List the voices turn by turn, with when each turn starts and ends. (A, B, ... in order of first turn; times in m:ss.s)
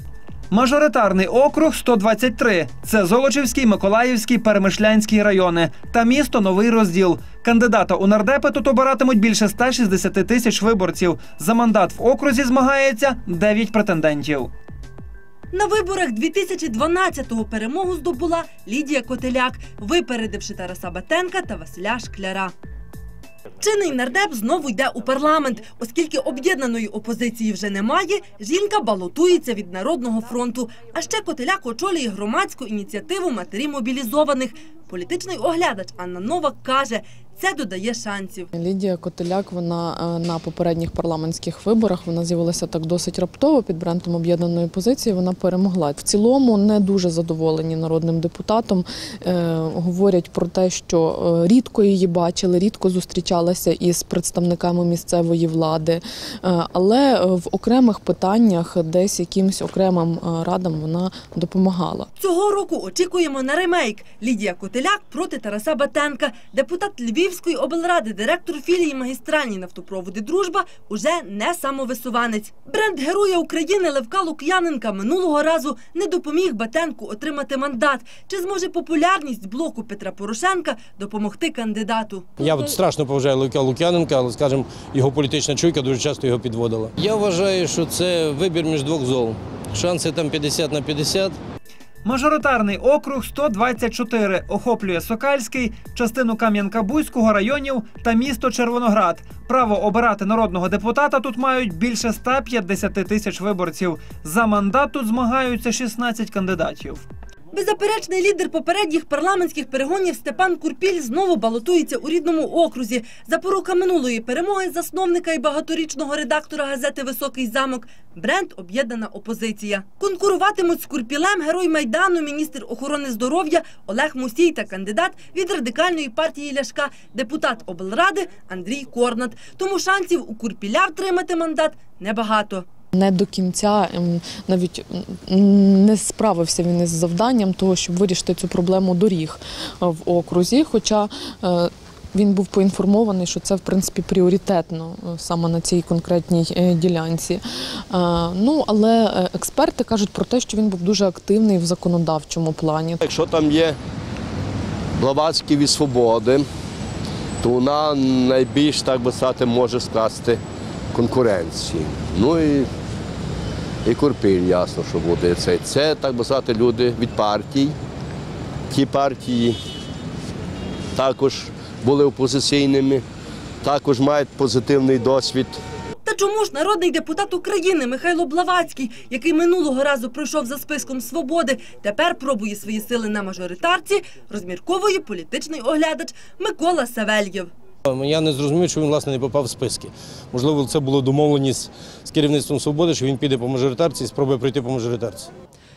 0:00.5-0:14.5 A
0:15.5-0:22.5 B
0:23.6-0:38.5 B
0:38.5-1:02.1 C
1:02.2-1:22.5 B
1:22.4-1:31.4 D
1:32.0-1:47.0 A
1:47.5-2:12.6 B
2:12.9-2:33.0 C
2:33.0-2:33.8 E
2:35.0-2:36.4 E
2:37.4-2:40.4 E
2:40.9-2:42.7 E
2:43.8-2:47.7 E
2:48.7-2:49.6 E
2:50.9-2:53.0 E
2:53.6-2:55.6 E
2:56.0-3:07.5 B
3:07.8-3:15.3 D